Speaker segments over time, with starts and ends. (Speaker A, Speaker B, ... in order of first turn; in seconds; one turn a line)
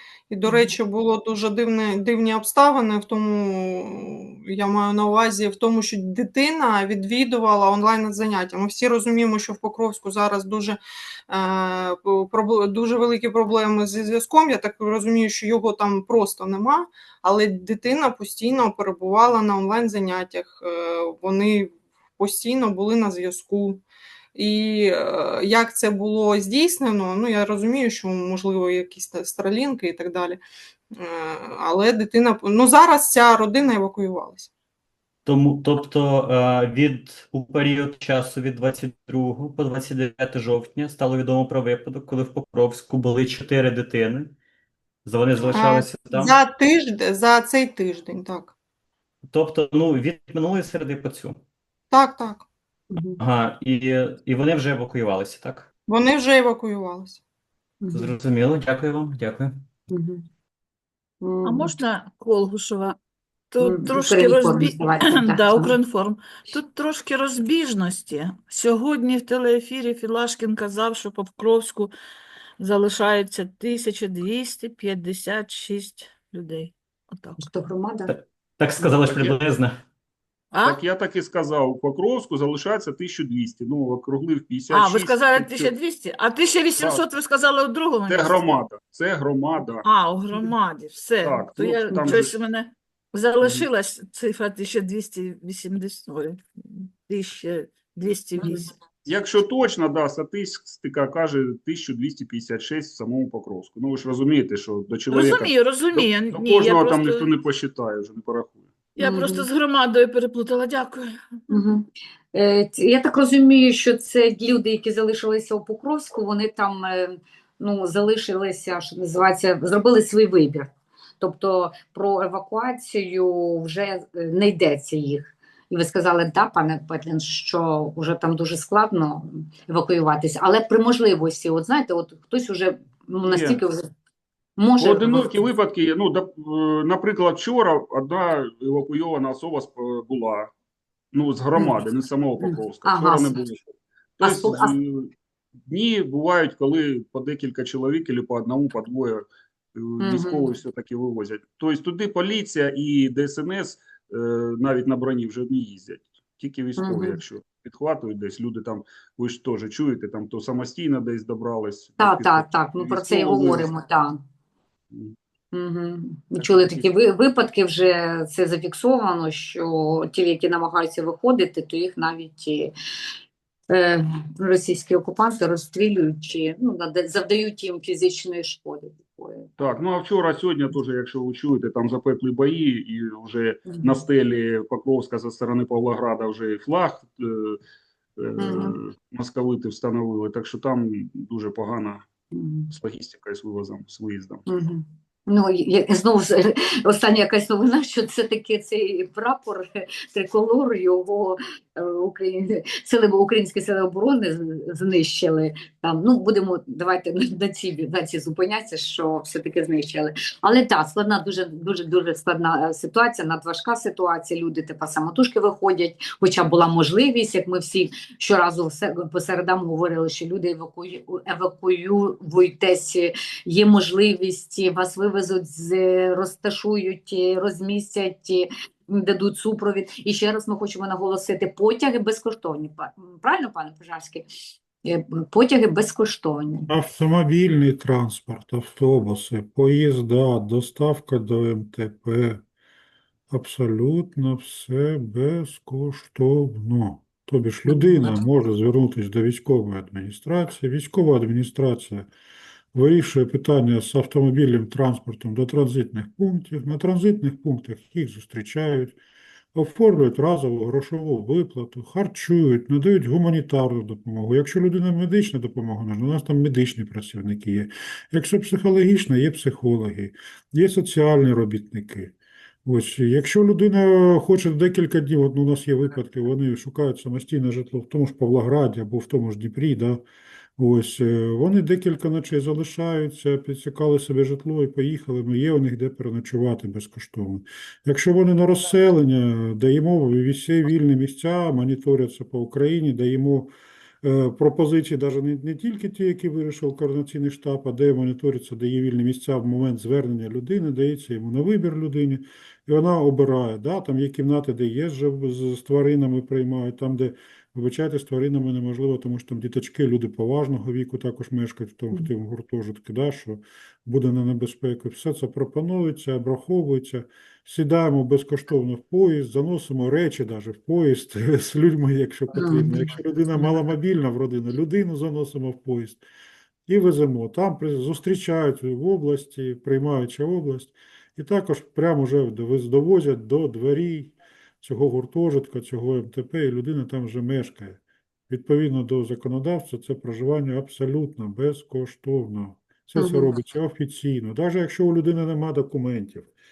Speaker A: 0.3-23.8
Speaker A: 24.3-30.4
Speaker A: 30.9-34.5
Speaker B: 35.2-44.3
Speaker B: 45.0-46.3
Speaker A: 45.5-48.5
Speaker B: 49.3-51.4
Speaker A: 51.9-52.5
Speaker C: 52.9-53.2
Speaker B: 53.2-55.7
Speaker A: 55.9-57.2
Speaker C: 57.8-58.1
Speaker B: 57.9-59.6
Speaker C: 59.9-60.2
Speaker C: 61.2-61.7
Speaker D: 61.4-63.0
Speaker D: 63.5-71.9
Speaker C: 63.6-65.7
Speaker D: 72.6-77.4
Speaker C: 77.4-78.1
Speaker B: 78.1-79.8
Speaker E: 79.0-79.3
Speaker D: 80.5-80.8
Speaker E: 80.6-85.7
Speaker D: 84.7-88.5
Speaker E: 88.1-90.5
Speaker D: 89.8-98.7
Speaker E: 91.2-92.4
Speaker E: 99.0-108.7
Speaker D: 105.1-107.3
Speaker D: 109.0-111.1
Speaker C: 109.0-109.5
Speaker C: 111.5-133.9
Speaker E: 133.2-133.6
Speaker C: 134.6-135.4
Speaker E: 134.8-140.5
Speaker E: 141.1-143.6
Speaker C: 142.4-143.3
Speaker E: 144.2-145.1
Speaker C: 144.2-144.7
Speaker E: 145.7-163.7
Speaker C: 150.0-150.5
Speaker C: 156.8-157.2
Speaker C: 162.0-164.2
Speaker C: 165.5-172.7
Speaker E: 166.4-166.9
Speaker C: 173.7-179.5
Speaker E: 179.6-187.6
Speaker E: 188.2-192.0
Speaker C: 188.4-188.8
Speaker C: 192.3-192.7
Speaker E: 192.7-194.4
Speaker C: 194.5-234.3
Speaker C: 234.8-236.7
Speaker F: 236.7-242.4
Speaker F: 243.3-252.1
Speaker F: 252.7-259.0
Speaker F: 259.5-280.0
Speaker F: 280.6-326.0
Speaker C: 322.3-322.9
Speaker F: 326.7-346.3
Speaker C: 343.0-343.3